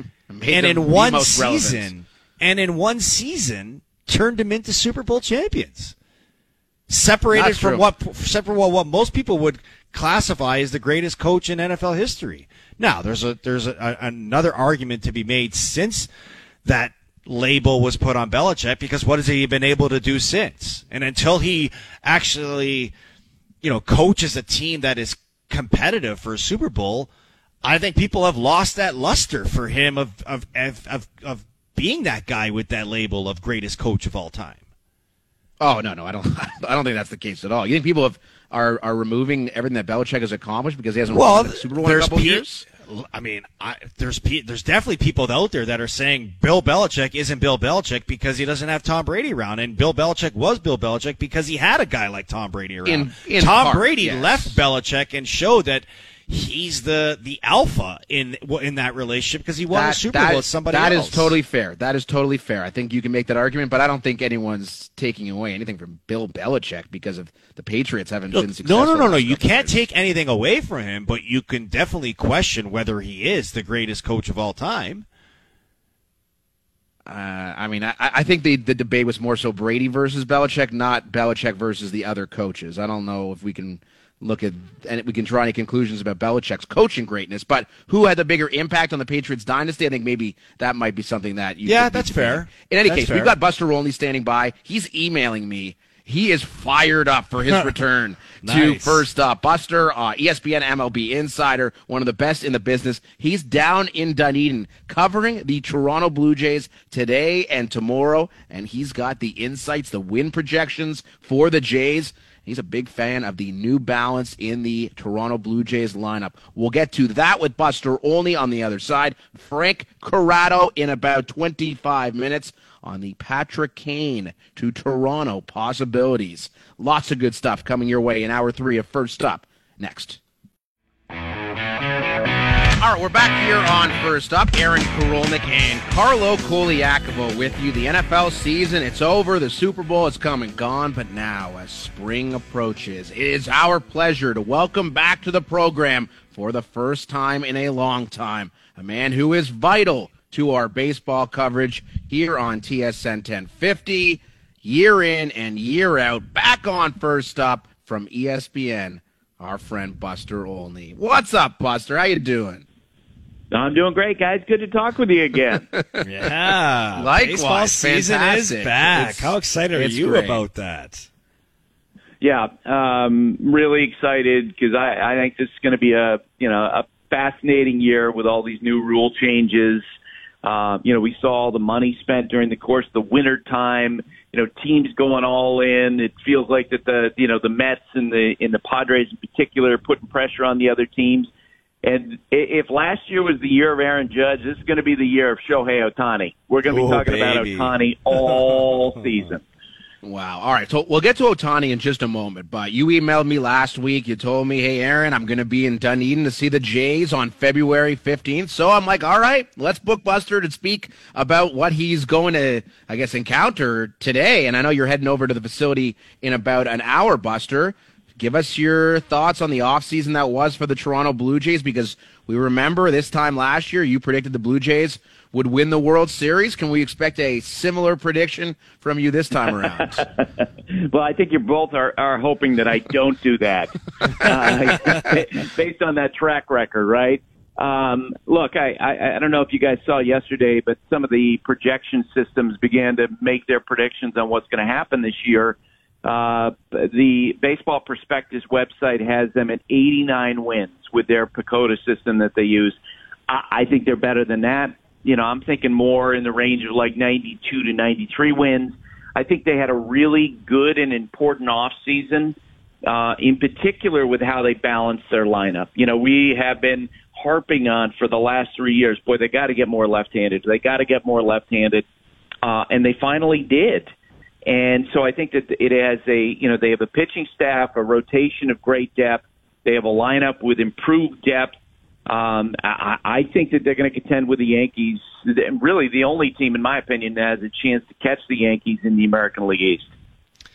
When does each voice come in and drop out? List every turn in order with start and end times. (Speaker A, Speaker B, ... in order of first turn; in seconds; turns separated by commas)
Speaker A: 0.3-1.9, Speaker B: 0.5-5.9, Speaker B: 6.9-16.1, Speaker A: 7.3-7.9, Speaker B: 16.6-22.9, Speaker B: 23.6-27.1, Speaker B: 27.6-34.6, Speaker A: 35.6-42.6, Speaker B: 41.1-61.4, Speaker A: 52.9-54.6, Speaker A: 59.7-69.8, Speaker B: 68.3-75.0, Speaker A: 77.0-130.2, Speaker B: 91.7-93.3, Speaker B: 98.4-99.1, Speaker A: 132.8-162.6, Speaker C: 163.5-165.7, Speaker B: 166.0-171.1, Speaker A: 166.9-170.4, Speaker C: 172.2-179.8, Speaker C: 180.4-191.3, Speaker C: 191.8-199.4, Speaker B: 196.7-199.3, Speaker A: 200.0-230.0, Speaker C: 230.0-252.8, Speaker C: 253.3-271.8, Speaker C: 272.4-273.9, Speaker C: 274.5-281.5, Speaker C: 282.1-289.9